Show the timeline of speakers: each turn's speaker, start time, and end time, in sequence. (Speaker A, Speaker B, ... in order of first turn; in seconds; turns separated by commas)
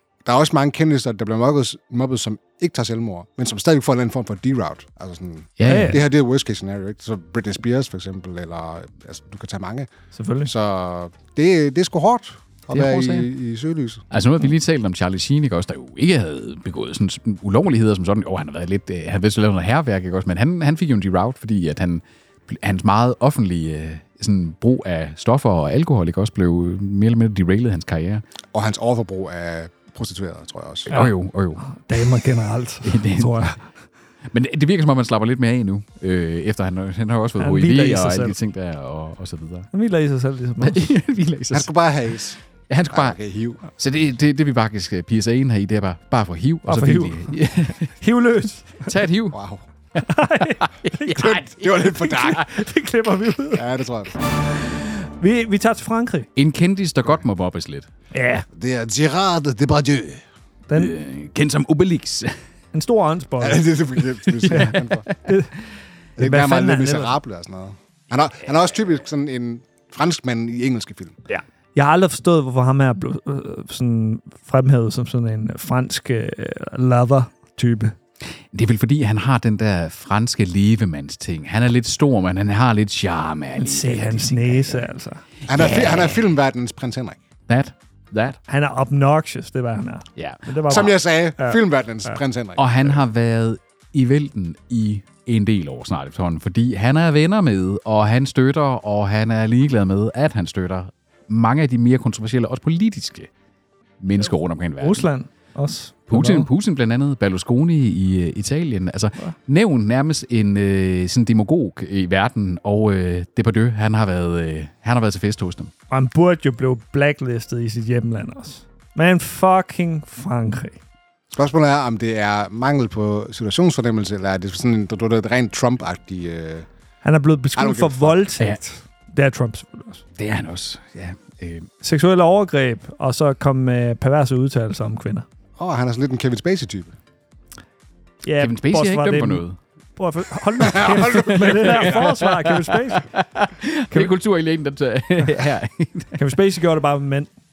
Speaker A: 0.2-9.9, Speaker B: 5.6-6.0, Speaker C: 5.7-6.0, Speaker C: 10.1-10.5, Speaker A: 10.4-14.1, Speaker B: 12.7-13.3, Speaker B: 14.1-28.2, Speaker A: 28.5-30.9, Speaker B: 30.9-31.6, Speaker C: 30.9-33.6, Speaker B: 32.8-33.5, Speaker B: 34.3-39.7, Speaker C: 37.4-38.4, Speaker C: 39.7-40.9, Speaker B: 40.6-41.7, Speaker A: 41.5-42.4, Speaker B: 42.7-43.2, Speaker A: 42.9-43.7, Speaker B: 43.8-47.9, Speaker C: 46.7-48.9, Speaker B: 48.9-49.4, Speaker A: 49.3-49.6, Speaker B: 50.0-52.5, Speaker C: 50.0-51.4, Speaker A: 51.1-52.5, Speaker C: 52.0-53.6, Speaker A: 53.5-54.1, Speaker C: 55.0-56.3, Speaker B: 56.4-57.9, Speaker C: 58.1-58.5, Speaker A: 58.5-60.2, Speaker C: 60.7-61.0, Speaker B: 60.7-62.3, Speaker C: 62.7-63.7, Speaker A: 63.4-65.1, Speaker B: 64.5-65.3, Speaker C: 64.5-65.5, Speaker A: 66.2-71.2, Speaker C: 66.2-67.2, Speaker C: 71.8-78.0, Speaker B: 78.5-84.9, Speaker C: 83.5-85.2, Speaker A: 85.5-87.2, Speaker B: 85.5-86.3, Speaker B: 87.5-88.4, Speaker C: 88.5-92.1, Speaker B: 90.2-90.9, Speaker A: 90.7-93.0, Speaker B: 92.6-103.3, Speaker B: 104.0-105.1, Speaker C: 104.8-106.5, Speaker B: 106.1-115.7, Speaker C: 115.9-120.8, Speaker A: 121.3-126.7, Speaker C: 127.0-130.0, Speaker A: 127.6-128.3, Speaker B: 130.2-131.7, Speaker C: 131.8-135.3, Speaker A: 135.6-136.9, Speaker C: 138.2-139.4, Speaker B: 138.4-139.6, Speaker C: 140.0-143.1, Speaker A: 140.6-142.1, Speaker B: 140.6-146.3, Speaker C: 146.2-147.3